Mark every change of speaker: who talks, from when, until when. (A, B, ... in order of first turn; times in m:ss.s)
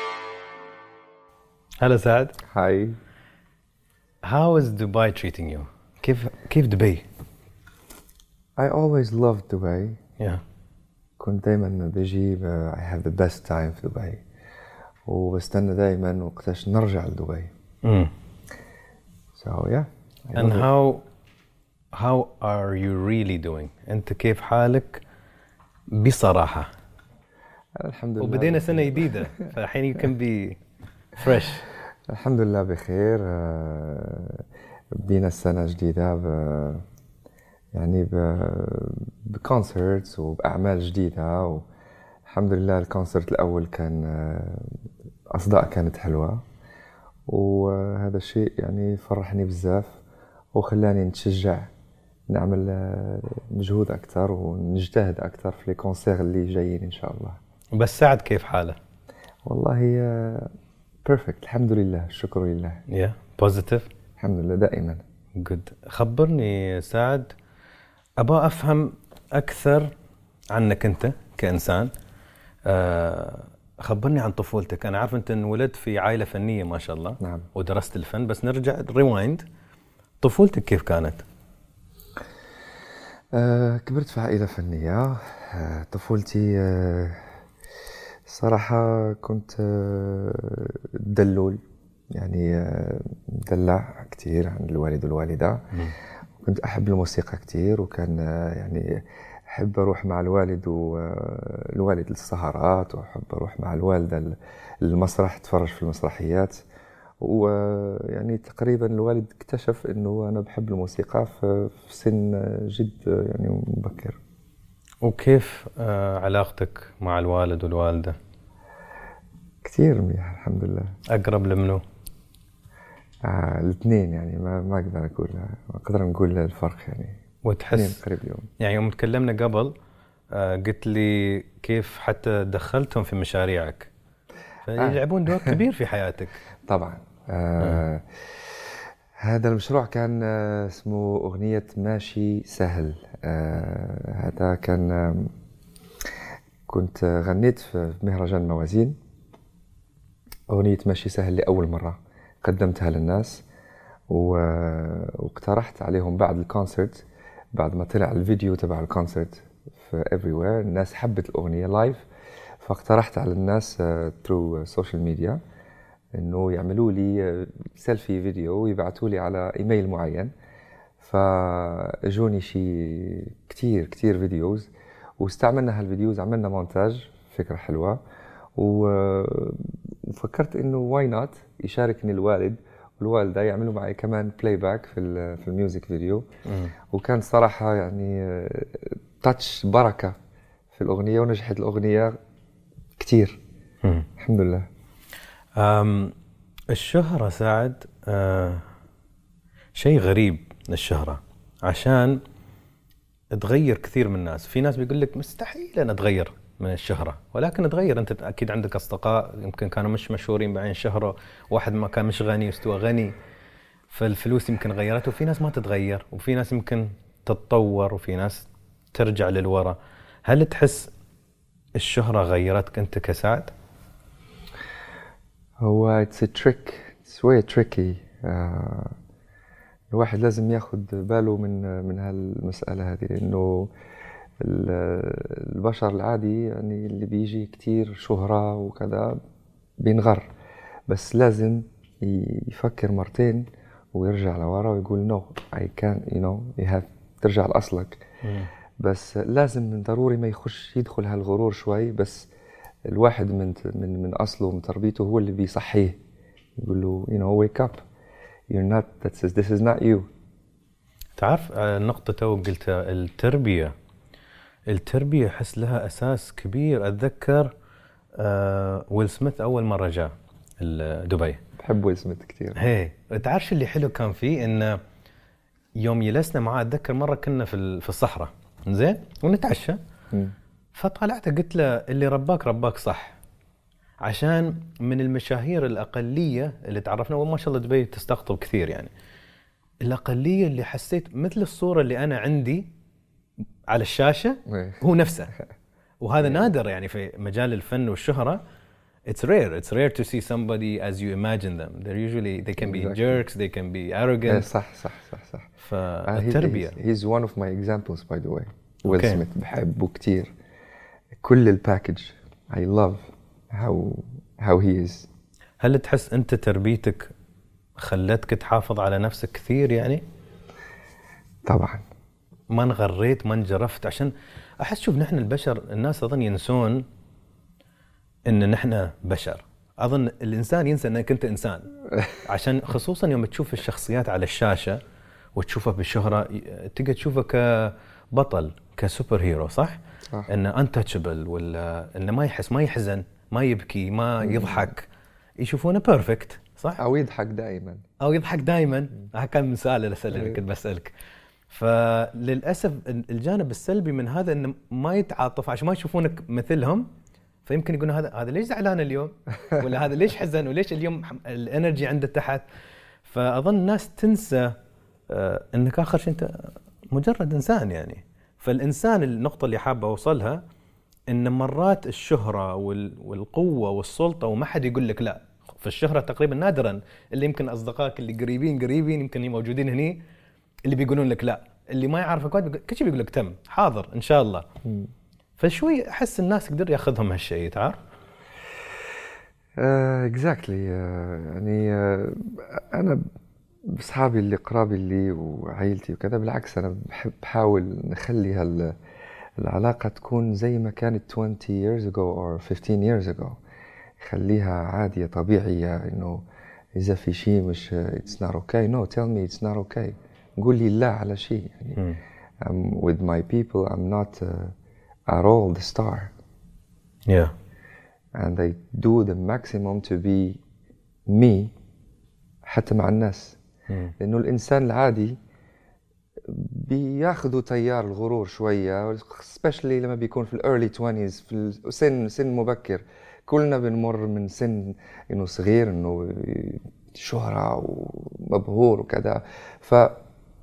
0:01.8-0:02.4 A
0:02.5-0:03.0 B
0:04.3-0:07.0 A
0:08.6-0:10.0 B
0:11.2-0:14.2 B
0:15.0-0:17.5 B
0:17.8-0:18.1 A
0:19.4-0:20.7 B
0:20.3-0:21.0 A
0:21.9-0:25.0 A
0:25.9-0:26.7 A
0:27.8-0:29.3 B
0:28.2-0:30.6 A
0:31.1-0:31.6 A
0:32.1-0:34.4 B
0:35.0-0:36.8 B
0:37.7-0:41.6 B
0:42.3-0:44.8 B
0:45.3-0:46.4 B
0:47.3-0:50.0 B
0:50.6-0:51.7 B
0:52.3-0:57.4 B
0:57.8-0:58.8 A
0:59.5-1:00.5 B
1:01.0-1:02.8 B
1:02.9-1:03.9 A
1:04.2-1:05.0 B
1:05.4-1:07.3 A
1:08.2-1:09.9 A
1:10.5-1:11.9 A
1:12.7-1:19.4 A
1:17.2-1:17.4 B
1:20.2-1:21.2 A
1:23.3-1:27.3 B
1:28.3-1:31.6 B
1:32.1-1:35.6 B
1:36.4-1:46.6 B
1:47.2-1:54.2 B
1:55.0-1:58.2 A
1:59.6-2:00.9 B
2:01.1-2:01.8 A
2:03.2-2:07.2 B
2:07.4-2:08.0 A
2:07.7-2:08.5 B
2:08.6-2:09.7 A
2:10.3-2:13.9 A
2:14.6-2:16.4 A
2:14.8-2:15.6 B
2:16.7-2:25.3 B
2:26.7-2:29.0 B
2:30.5-2:33.4 B
2:34.1-2:37.0 B
2:37.5-2:42.0 B
2:42.6-2:45.4 B
2:46.2-2:50.3 B
2:51.0-2:58.0 B
2:58.6-3:06.2 B
3:06.4-3:06.7 A
3:06.9-3:10.1 B
3:10.7-3:12.2 B
3:13.0-3:13.4 B
3:14.2-3:14.7 B
3:15.6-3:16.1 A
3:16.7-3:18.6 A
3:19.8-3:22.2 A
3:23.3-3:33.1 A
3:33.9-3:40.9 A
3:41.8-3:43.5 A
3:45.6-3:48.9 B
3:49.9-3:53.7 B
3:54.4-3:59.2 B
3:59.8-4:00.3 B
4:00.9-4:08.0 B
4:08.2-4:08.5 A
4:08.8-4:12.3 B
4:12.9-4:16.0 B
4:16.6-4:17.8 B
4:18.5-4:20.1 B
4:21.2-4:23.7 A
4:24.7-4:27.5 A
4:28.2-4:31.4 A
4:31.6-4:32.6 B
4:32.6-4:34.8 A
4:35.8-4:39.8 A
4:40.8-4:43.2 A
4:44.0-4:48.9 A
4:49.8-4:52.7 A
4:53.7-4:55.3 A
4:54.5-4:54.8 B
4:56.0-4:58.4 A
4:56.2-4:56.5 B
4:59.1-5:04.5 A
5:02.6-5:03.2 B
5:04.3-5:05.5 B
5:05.6-5:06.8 A
5:06.1-5:10.3 B
5:08.9-5:09.2 A
5:11.2-5:15.1 B
5:15.6-5:17.1 A
5:17.8-5:20.0 A
5:21.5-5:21.8 B
5:22.5-5:26.8 A
5:28.3-5:31.7 A
5:32.2-5:34.8 A
5:35.4-5:44.9 A
5:44.2-5:44.7 B
5:45.4-5:46.8 A
5:46.8-5:47.8 B
5:48.0-5:50.9 A
5:50.1-5:50.4 B
5:51.5-5:56.9 A
5:57.4-6:02.4 A
6:03.0-6:04.6 A
6:05.1-6:10.4 A
6:11.1-6:20.0 A
6:20.7-6:24.4 A
6:24.6-6:24.9 B
6:25.4-6:27.8 A
6:29.6-6:33.0 B
6:33.7-6:38.7 B
6:39.4-6:43.4 B
6:44.0-6:46.2 B
6:46.8-6:51.8 B
6:52.4-6:54.5 B
6:55.1-6:56.1 B
6:58.2-7:00.4 B
7:01.1-7:01.5 B
7:02.4-7:03.4 B
7:03.7-7:03.9 A
7:04.0-7:05.2 B
7:06.3-7:19.9 B